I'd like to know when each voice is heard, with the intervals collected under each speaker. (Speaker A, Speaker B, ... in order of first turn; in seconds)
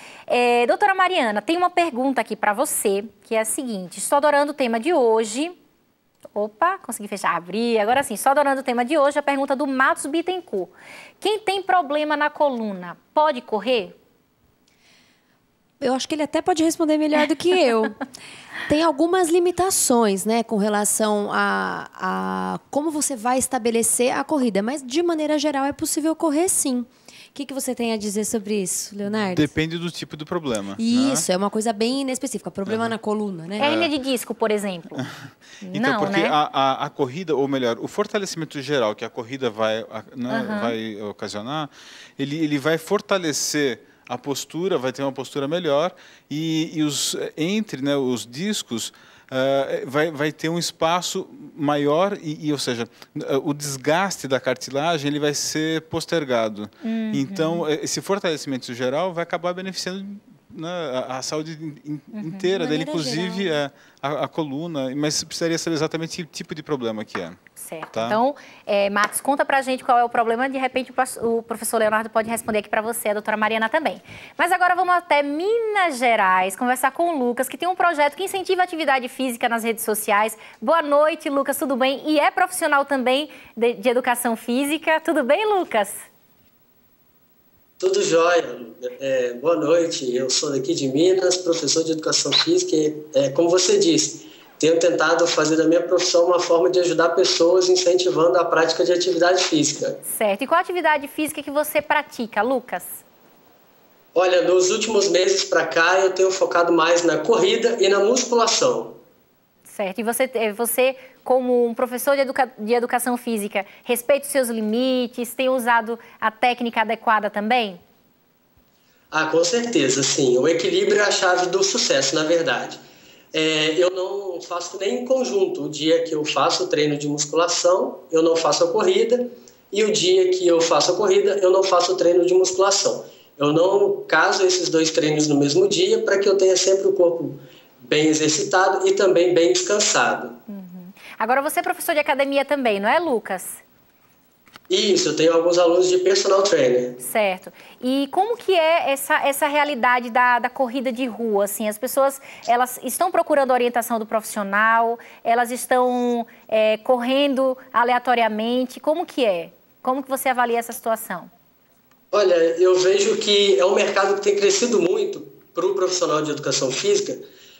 Speaker A: 0.3-5.5, 6.3-13.9, 33.6-35.1, 35.6-36.3, 40.3-40.8, 56.8-57.7, 62.1-62.5, 67.5-86.0, 100.0-103.0, 109.7-117.8, 140.5-143.6, 147.0-161.3
Speaker B: 15.8-18.0, 18.7-29.5, 30.8-33.7, 62.5-63.6
Speaker C: 29.1-31.2, 32.6-32.9, 33.6-33.9, 35.1-67.4, 67.9-68.2
Speaker D: 87.8-100.0, 104.1-109.0, 119.1-122.8, 123.3-140.3, 144.7-147.0, 162.1-167.2